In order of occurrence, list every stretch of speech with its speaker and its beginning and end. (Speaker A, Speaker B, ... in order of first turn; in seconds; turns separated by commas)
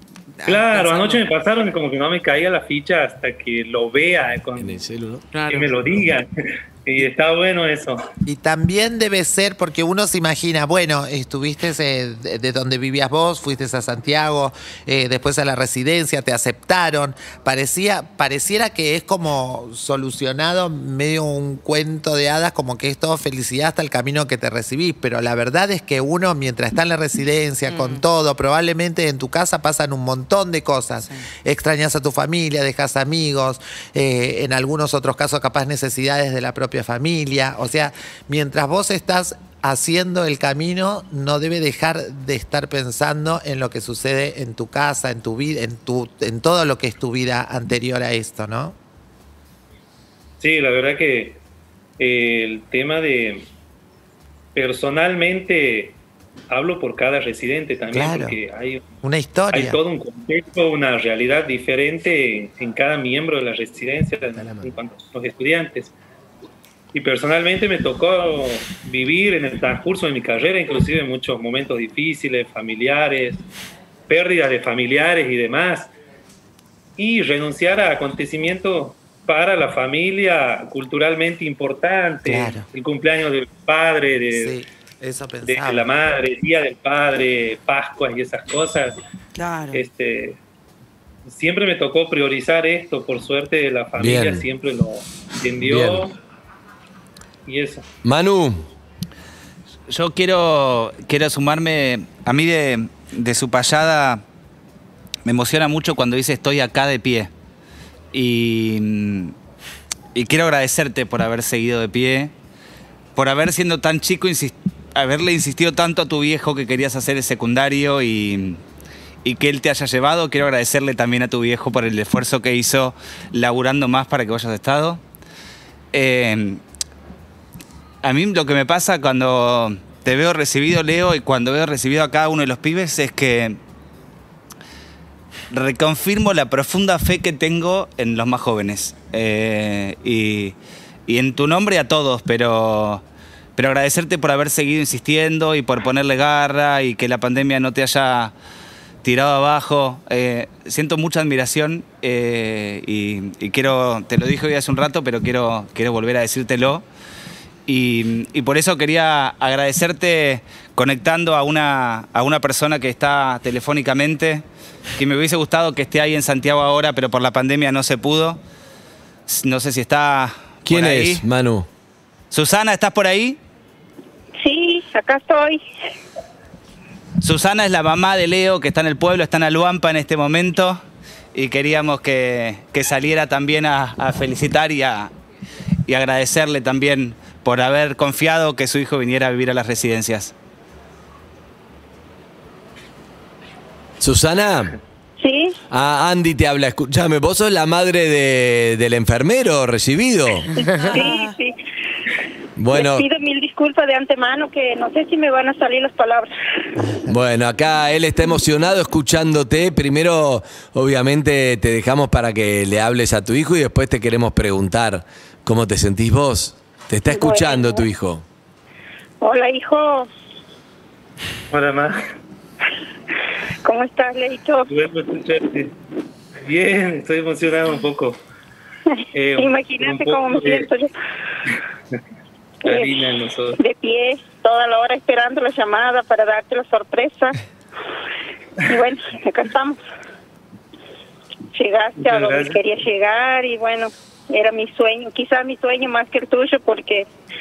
Speaker A: 0.4-1.2, Speaker B: 0.5-4.8, Speaker C: 4.6-5.3, Speaker A: 5.3-5.8, Speaker B: 5.5-6.3, Speaker B: 6.8-8.0, Speaker D: 8.3-48.8, Speaker A: 27.7-28.0, Speaker B: 50.4-51.4, Speaker B: 52.0-53.5, Speaker B: 54.5-56.0, Speaker B: 56.5-58.8, Speaker D: 57.9-58.4, Speaker D: 59.0-59.8, Speaker B: 59.5-65.9, Speaker C: 64.4-64.7, Speaker B: 66.9-73.4, Speaker B: 74.1-75.9, Speaker B: 77.0-84.5, Speaker D: 82.3-82.7, Speaker D: 84.3-85.9, Speaker B: 85.5-89.0, Speaker A: 89.3-89.8, Speaker B: 89.7-90.4, Speaker B: 91.3-96.2, Speaker C: 94.0-94.5, Speaker C: 95.7-96.1, Speaker B: 97.5-97.8, Speaker C: 98.0-98.7, Speaker E: 99.9-104.2, Speaker E: 105.3-107.3, Speaker E: 108.1-109.3, Speaker E: 110.2-112.3, Speaker E: 113.2-118.6, Speaker E: 119.2-125.0, Speaker E: 125.9-126.6, Speaker E: 128.0-133.6, Speaker E: 135.5-140.6, Speaker E: 141.1-143.0, Speaker E: 143.6-148.3, Speaker E: 149.0-156.8, Speaker E: 157.7-164.4, Speaker E: 165.0-168.4, Speaker E: 169.3-171.2, Speaker C: 170.7-171.7, Speaker E: 172.3-173.4, Speaker F: 174.4-175.6, Speaker E: 177.2-180.8, Speaker E: 181.3-185.1, Speaker E: 185.9-190.3, Speaker C: 194.0-194.8, Speaker F: 195.2-195.6, Speaker C: 195.7-200.5, Speaker F: 200.6-201.5, Speaker A: 200.7-201.3, Speaker C: 202.6-203.1, Speaker F: 202.7-206.3, Speaker C: 207.1-218.2, Speaker F: 217.1-217.8, Speaker F: 219.2-220.1, Speaker B: 221.5-222.0, Speaker F: 223.7-224.7, Speaker B: 224.7-225.7, Speaker B: 226.4-228.2, Speaker B: 229.1-230.7, Speaker F: 229.4-230.9, Speaker B: 232.6-233.6, Speaker F: 232.7-232.9, Speaker F: 233.6-237.4, Speaker F: 238.6-239.8, Speaker F: 241.5-247.1, Speaker B: 242.0-242.6